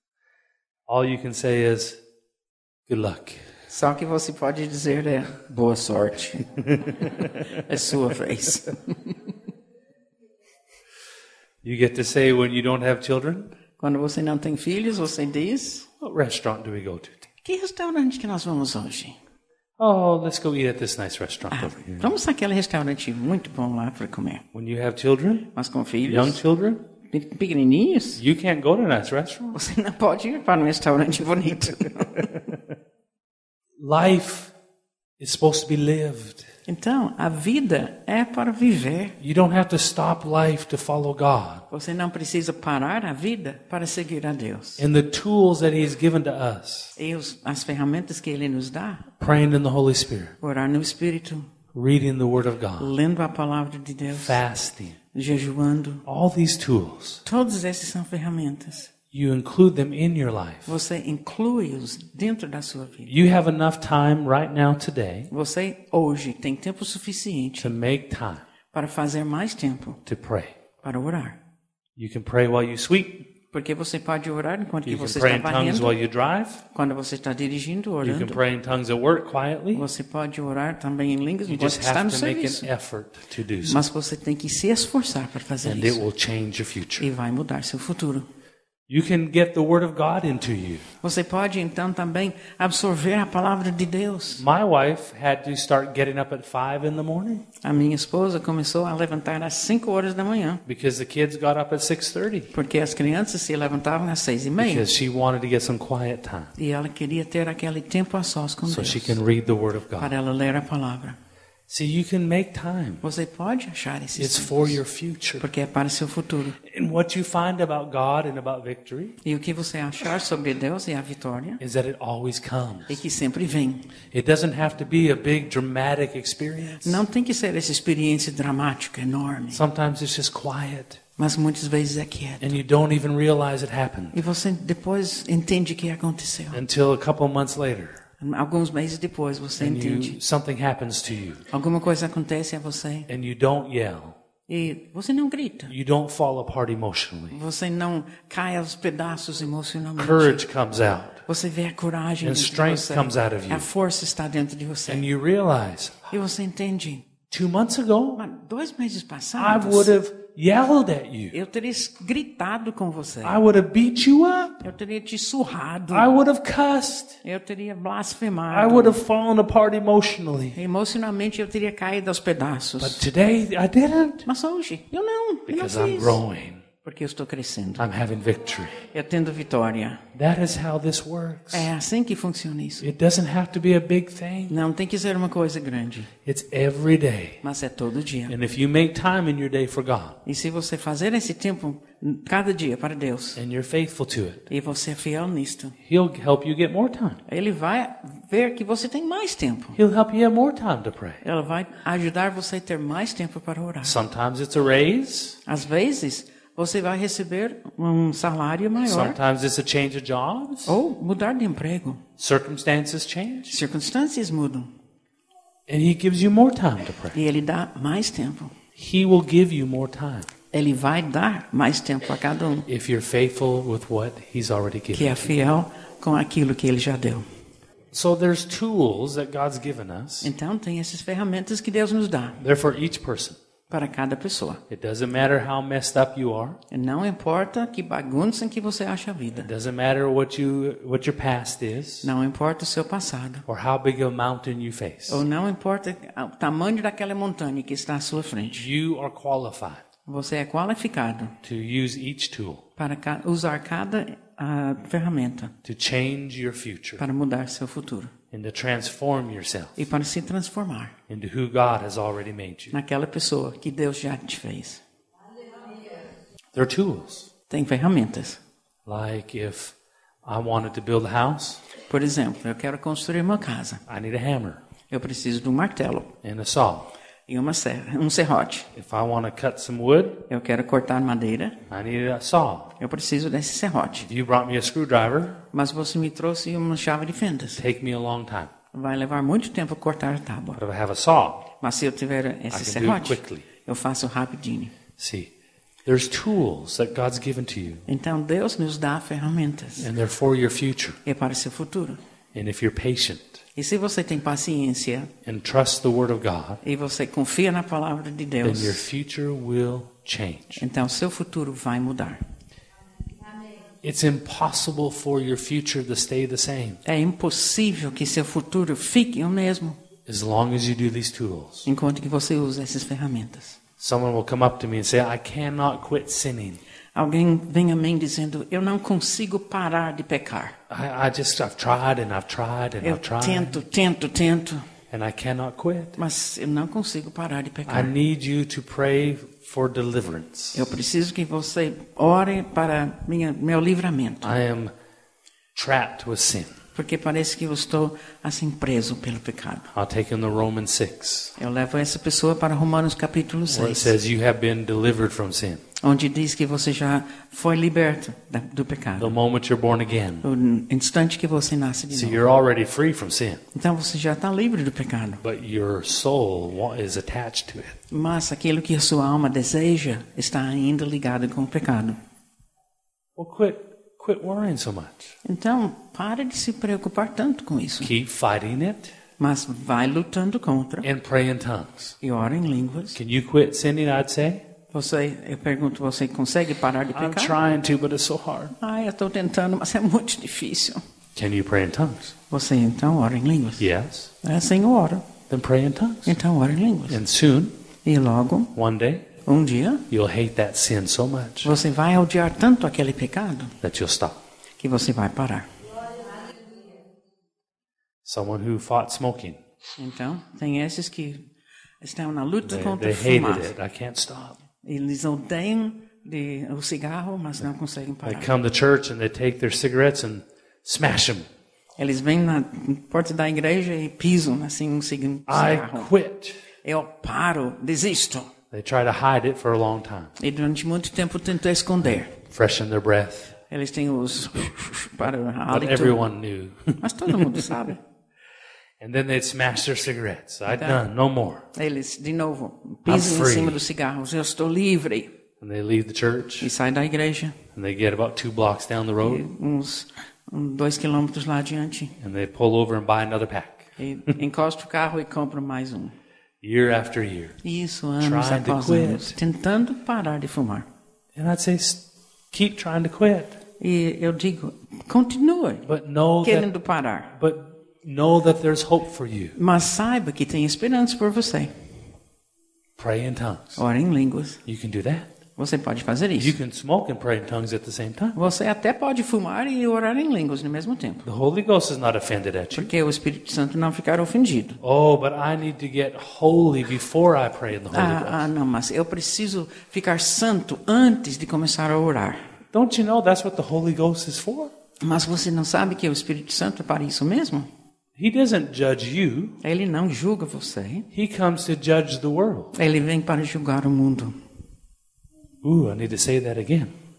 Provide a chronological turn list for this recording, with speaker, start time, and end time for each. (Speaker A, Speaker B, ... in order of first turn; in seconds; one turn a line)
Speaker A: 0.9-2.0
Speaker A: 2.9-3.4
Speaker B: 3.7-9.2
Speaker A: 6.7-7.6
Speaker A: 11.6-13.5
Speaker B: 13.8-15.9
Speaker A: 16.0-17.3
Speaker B: 17.4-19.2
Speaker A: 19.8-22.1
Speaker B: 21.5-24.4
Speaker A: 24.5-25.5
Speaker B: 25.5-26.4
Speaker A: 26.0-26.8
Speaker B: 27.1-28.2
Speaker A: 28.2-29.6
Speaker B: 29.5-32.5
Speaker A: 32.2-32.7
Speaker A: 33.8-34.5
Speaker A: 35.2-36.5
Speaker B: 36.7-39.2
Speaker A: 39.2-41.6
Speaker B: 41.7-44.9
Speaker A: 44.8-47.0
Speaker B: 47.0-49.1
Speaker A: 49.2-50.4
Speaker B: 50.4-51.5
Speaker A: 51.7-52.9
Speaker B: 52.8-54.4
Speaker A: 54.1-55.0
Speaker B: 55.1-56.0
Speaker A: 56.1-57.2
Speaker B: 57.3-58.9
Speaker A: 59.1-60.7
Speaker B: 60.7-63.1
Speaker A: 63.1-65.3
Speaker B: 65.3-67.7
Speaker A: 67.6-68.4
Speaker B: 68.7-70.0
Speaker A: 70.1-70.5
Speaker B: 70.8-71.4
Speaker A: 72.0-73.3
Speaker B: 73.5-76.0
Speaker A: 74.8-76.6
Speaker B: 76.7-78.4
Speaker A: 78.0-79.9
Speaker B: 79.7-82.7
Speaker A: 81.5-83.8
Speaker B: 83.6-86.1
Speaker A: 85.6-87.1
Speaker B: 87.0-88.3
Speaker A: 88.9-90.8
Speaker B: 91.0-94.4
Speaker A: 94.4-97.5
Speaker B: 97.6-100.6
Speaker A: 100.7-102.5
Speaker B: 102.5-104.9
Speaker A: 104.6-106.5
Speaker B: 106.6-109.2
Speaker A: 108.7-110.1
Speaker B: 110.0-111.2
Speaker A: 111.7-113.0
Speaker B: 113.0-114.8
Speaker A: 114.2-115.5
Speaker B: 115.4-116.6
Speaker A: 116.6-119.2
Speaker B: 119.2-121.6
Speaker A: 121.6-123.0
Speaker B: 122.9-123.9
Speaker A: 124.1-127.0
Speaker B: 126.8-129.6
Speaker A: 129.5-131.0
Speaker B: 131.2-132.6
Speaker A: 132.4-134.2
Speaker B: 134.1-136.6
Speaker A: 136.5-138.0
Speaker B: 138.2-140.2
Speaker A: 139.6-141.4
Speaker B: 141.5-143.1
Speaker A: 143.1-144.2
Speaker B: 144.5-145.7
Speaker A: 145.7-147.4
Speaker B: 147.3-150.4
Speaker A: 150.0-151.2
Speaker B: 151.3-155.1
Speaker A: 152.2-153.7
Speaker A: 154.9-156.1
Speaker B: 156.1-157.1
Speaker A: 157.3-158.2
Speaker B: 158.2-159.9
Speaker A: 159.4-161.4
Speaker B: 161.3-163.4
Speaker A: 163.2-164.6
Speaker B: 164.6-166.1
Speaker A: 165.9-167.2
Speaker B: 167.2-169.0
Speaker A: 168.5-170.6
Speaker B: 170.5-173.1
Speaker A: 172.8-174.3
Speaker B: 174.3-176.2
Speaker A: 175.5-176.6
Speaker B: 176.8-177.8
Speaker A: 177.8-178.8
Speaker B: 178.9-180.0
Speaker A: 180.1-181.7
Speaker B: 181.5-182.8
Speaker A: 182.8-184.6
Speaker B: 184.5-186.1
Speaker A: 186.3-187.4
Speaker B: 187.4-188.4
Speaker A: 188.3-190.2
Speaker B: 190.2-193.4
Speaker A: 193.3-194.5
Speaker B: 194.5-195.8
Speaker A: 195.8-197.2
Speaker B: 197.3-199.8
Speaker A: 199.8-201.2
Speaker B: 201.2-204.0
Speaker A: 203.8-205.4
Speaker B: 205.5-209.2
Speaker A: 208.9-210.8
Speaker B: 210.7-212.0
Speaker A: 212.2-213.6
Speaker B: 213.5-214.7
Speaker A: 215.7-217.2
Speaker B: 217.1-218.6
Speaker A: 218.8-220.3
Speaker B: 220.5-222.7
Speaker A: 222.7-225.4
Speaker B: 224.9-227.2
Speaker A: 227.9-230.3
Speaker B: 230.2-232.4
Speaker A: 232.4-233.4
Speaker B: 233.7-234.6
Speaker A: 234.7-236.6
Speaker B: 236.7-239.5
Speaker A: 239.4-242.1
Speaker B: 242.0-243.4
Speaker A: 243.5-245.2
Speaker B: 245.1-248.7
Speaker A: 248.6-249.8
Speaker B: 250.1-251.3
Speaker A: 251.4-252.7
Speaker B: 252.8-255.5
Speaker A: 255.6-257.0
Speaker B: 257.0-258.1
Speaker A: 258.3-259.9
Speaker B: 259.8-260.9
Speaker A: 261.1-262.8
Speaker B: 262.7-264.8
Speaker A: 266.5-267.3
Speaker B: 267.5-268.4
Speaker A: 268.9-271.6
Speaker B: 271.9-273.8
Speaker A: 273.9-274.6
Speaker B: 274.9-276.1
Speaker A: 276.2-276.9
Speaker B: 277.3-278.7
Speaker A: 278.7-280.2
Speaker B: 280.3-281.6
Speaker A: 281.7-282.7
Speaker B: 282.8-284.1
Speaker A: 284.0-285.4
Speaker B: 285.5-287.6
Speaker A: 287.6-288.5
Speaker B: 288.7-290.6
Speaker A: 290.6-291.5
Speaker B: 291.6-294.7
Speaker A: 292.5-293.5
Speaker A: 295.0-295.3
Speaker A: 295.9-297.8
Speaker B: 297.9-299.9
Speaker A: 299.8-301.0
Speaker B: 301.1-302.0
Speaker A: 302.3-303.4
Speaker B: 303.6-305.1
Speaker A: 305.2-306.6
Speaker B: 306.6-308.8
Speaker A: 308.4-310.6
Speaker B: 310.6-312.2
Speaker A: 313.8-316.8
Speaker B: 316.9-319.8
Speaker A: 320.1-321.7
Speaker B: 321.7-323.6
Speaker A: 323.8-326.6
Speaker B: 326.9-330.6
Speaker A: 330.7-333.6
Speaker B: 332.8-334.6
Speaker A: 334.9-336.0
Speaker B: 336.0-337.9
Speaker A: 337.7-340.7
Speaker B: 340.5-344.4
Speaker A: 344.2-344.7
Speaker A: 345.6-346.6
Speaker B: 346.8-349.7
Speaker A: 349.7-351.4
Speaker B: 351.4-353.9
Speaker A: 353.5-355.6
Speaker B: 355.8-359.1
Speaker A: 359.0-360.2
Speaker B: 360.2-362.2
Speaker A: 361.9-363.4
Speaker B: 363.5-365.2
Speaker A: 365.2-367.8
Speaker B: 367.9-372.0
Speaker A: 373.2-375.1
Speaker B: 375.2-377.9
Speaker A: 377.8-378.9
Speaker B: 379.2-380.9
Speaker A: 380.8-382.0
Speaker B: 382.0-383.0
Speaker A: 382.9-384.4
Speaker B: 384.7-387.4
Speaker A: 386.9-388.6
Speaker B: 388.6-390.8
Speaker A: 391.1-392.1
Speaker B: 392.3-393.7
Speaker A: 393.6-394.1
Speaker B: 394.2-395.1
Speaker A: 395.3-396.2
Speaker B: 396.1-397.0
Speaker A: 396.9-397.5
Speaker B: 397.8-398.5
Speaker A: 398.5-399.1
Speaker B: 399.2-399.9
Speaker A: 399.9-401.5
Speaker B: 401.4-403.6
Speaker A: 403.6-404.2
Speaker B: 404.6-405.5
Speaker A: 408.0-409.4
Speaker B: 409.8-411.3
Speaker B: 411.8-413.5
Speaker A: 412.4-414.4
Speaker B: 414.6-418.3
Speaker A: 418.0-421.3
Speaker B: 421.8-425.9
Speaker A: 425.3-426.5
Speaker B: 426.6-428.3
Speaker A: 428.5-430.1
Speaker B: 430.2-432.1
Speaker A: 432.2-433.4
Speaker B: 433.5-436.0
Speaker A: 435.5-437.5
Speaker B: 436.8-437.8
Speaker A: 438.8-441.4
Speaker B: 440.5-440.8
Speaker B: 441.5-445.1
Speaker A: 442.9-443.6
Speaker A: 445.4-446.5
Speaker B: 446.4-447.4
Speaker A: 447.5-449.3
Speaker B: 449.0-451.9
Speaker A: 452.0-453.7
Speaker B: 453.8-455.9
Speaker A: 456.4-457.4
Speaker B: 457.4-460.7
Speaker A: 458.0-459.2
Speaker A: 461.1-463.4
Speaker B: 463.6-465.7
Speaker A: 465.6-466.5
Speaker B: 466.2-467.2
Speaker A: 467.1-469.4
Speaker B: 469.4-471.5
Speaker A: 472.8-473.6
Speaker B: 473.6-474.4
Speaker A: 474.5-475.1
Speaker B: 475.4-476.4
Speaker A: 476.2-478.2
Speaker B: 478.1-481.1
Speaker A: 481.1-482.7
Speaker B: 482.5-484.6
Speaker A: 484.6-488.3
Speaker B: 487.7-492.2
Speaker A: 492.5-494.5
Speaker B: 494.8-497.5
Speaker A: 498.0-499.4
Speaker B: 499.4-500.9
Speaker A: 500.9-502.6
Speaker B: 502.6-504.2
Speaker A: 505.4-506.7